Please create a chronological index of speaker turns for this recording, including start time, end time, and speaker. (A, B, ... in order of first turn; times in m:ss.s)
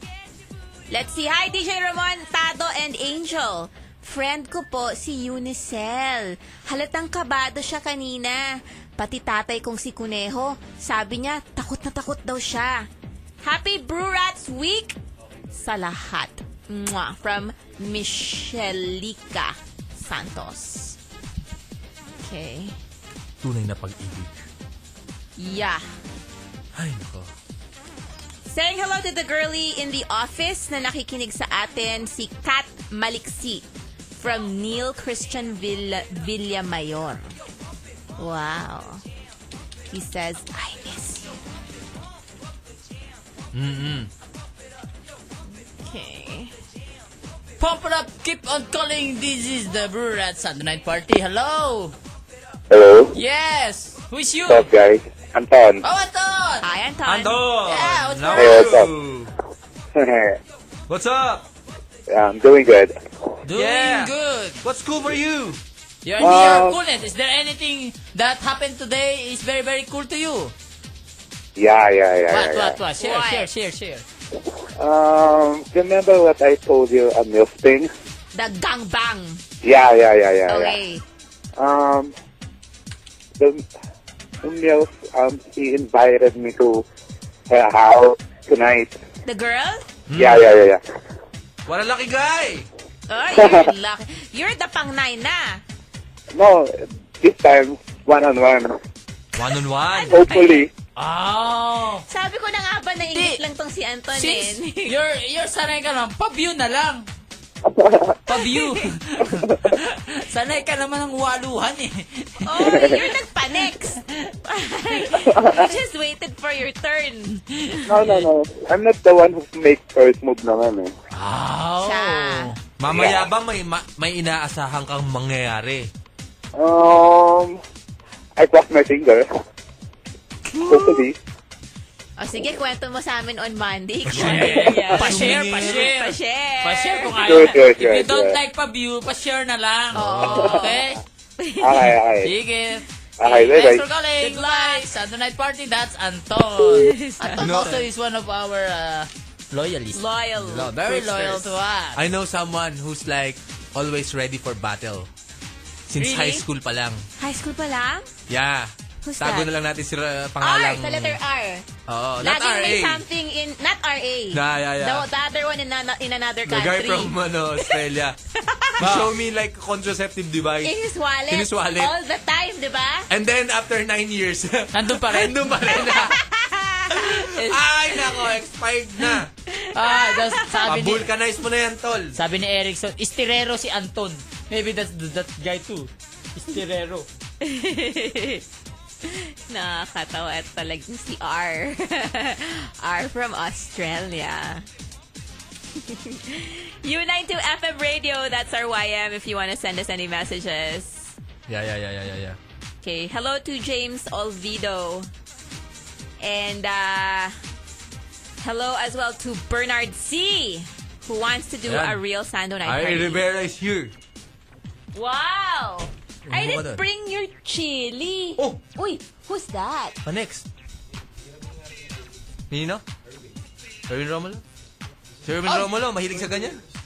0:00.9-0:12.9 A
0:13.4-0:15.0 A
0:15.5-0:21.0 A
0:22.2-0:22.8 A
0:23.4-0:24.3 B
0:25.4-0:25.9 A
0:26.7-0:27.3 B
0:28.5-0:37.3 A
0:38.2-0:39.0 A
0:39.9-0:41.4 A
0:43.5-0:44.1 B
0:45.5-0:46.5 A
0:47.6-0:51.9 C
0:52.7-0:53.1 D
0:53.1-0:54.7 C
0:54.4-0:55.8 D
0:55.8-0:56.6 C
0:56.6-0:57.4 A
0:57.0-0:59.3 B
0:57.6-0:58.8 C
0:58.3-0:58.9 D
0:59.9-1:00.4 D
1:00.9-1:01.4 B
1:02.1-1:02.9 D
1:03.4-1:04.6 C
1:03.5-1:05.6 B
1:06.0-1:10.5 C
1:06.2-1:06.8 D
1:11.6-1:12.8 D
1:12.3-1:14.0 C
1:13.0-1:13.5 A
1:14.8-1:17.9 D
1:18.3-1:19.4 A
1:19.6-1:20.8 D
1:20.5-1:21.0 A
1:21.6-1:22.1 D
1:24.4-1:26.8 D
1:27.5-1:29.0 D
1:29.2-1:29.8 A
1:30.1-1:30.5 B
1:30.1-1:30.8 D
1:31.7-1:32.7 B
1:33.1-1:35.6 A
1:33.4-1:33.7 D
1:36.3-1:38.8 D
1:39.4-1:40.2 B
1:39.9-1:40.6 A
1:40.1-1:40.7 D
1:41.0-1:42.0 C
1:42.1-1:44.9 A
1:43.1-1:43.4 C
1:44.1-1:47.1 C
1:47.7-1:48.1 D
1:48.2-1:52.4 C
1:48.4-1:48.8 A
1:52.4-1:57.8 A
1:52.6-1:53.0 D
1:55.2-1:55.6 D
1:57.9-2:00.9 D
1:57.9-1:58.3 C
2:01.1-2:02.6 C
2:01.8-2:02.5 A
2:02.8-2:05.9 B
2:02.8-2:03.2 D
2:06.6-2:07.6 D
2:08.4-2:09.2 D
2:10.5-2:11.0 C
2:10.6-2:11.2 D
2:12.2-2:17.6 A
2:14.1-2:21.0 C
2:14.1-2:15.9 B
2:17.2-2:18.4 D
2:19.9-2:20.5 B
2:19.9-2:20.7 A
2:21.4-2:21.9 A
2:21.6-2:22.3 D
2:22.2-2:32.0 C
2:23.2-2:23.8 D
2:24.2-2:24.9 A
2:26.6-2:27.7 A
2:27.4-2:27.8 B
2:29.9-2:30.7 A
2:30.5-2:35.1 B
2:35.9-2:37.0 B
2:36.0-2:36.4 A
2:37.2-2:38.1 A
2:38.3-2:41.2 B
2:39.0-2:39.5 A
2:40.4-2:41.6 A
2:41.9-2:43.0 B
2:42.2-2:47.8 A
2:44.3-2:45.0 B
2:46.5-2:48.2 B
2:48.4-2:48.8 A
2:48.8-2:50.7 B
2:48.8-2:49.1 C
2:50.6-2:53.1 A
2:51.2-2:51.9 B
2:53.1-2:56.1 B
2:54.7-2:55.6 C
2:55.8-2:58.3 A
2:56.9-2:59.3 B
2:59.1-3:00.6 A
2:59.7-3:01.1 C
3:00.6-3:02.2 B
3:02.1-3:07.0 C
3:07.4-3:14.6 A
3:15.8-3:21.1 A
3:21.5-3:22.4 B
3:22.8-3:25.1 A
3:26.2-3:27.4 A
3:28.4-3:33.2 A
3:31.6-3:32.0 B
3:32.6-3:33.9 B
3:34.9-3:40.0 A
3:36.2-3:36.8 B
3:40.0-3:40.4 B
3:42.5-3:42.8 B
3:43.9-3:44.4 B
3:45.2-3:46.6 B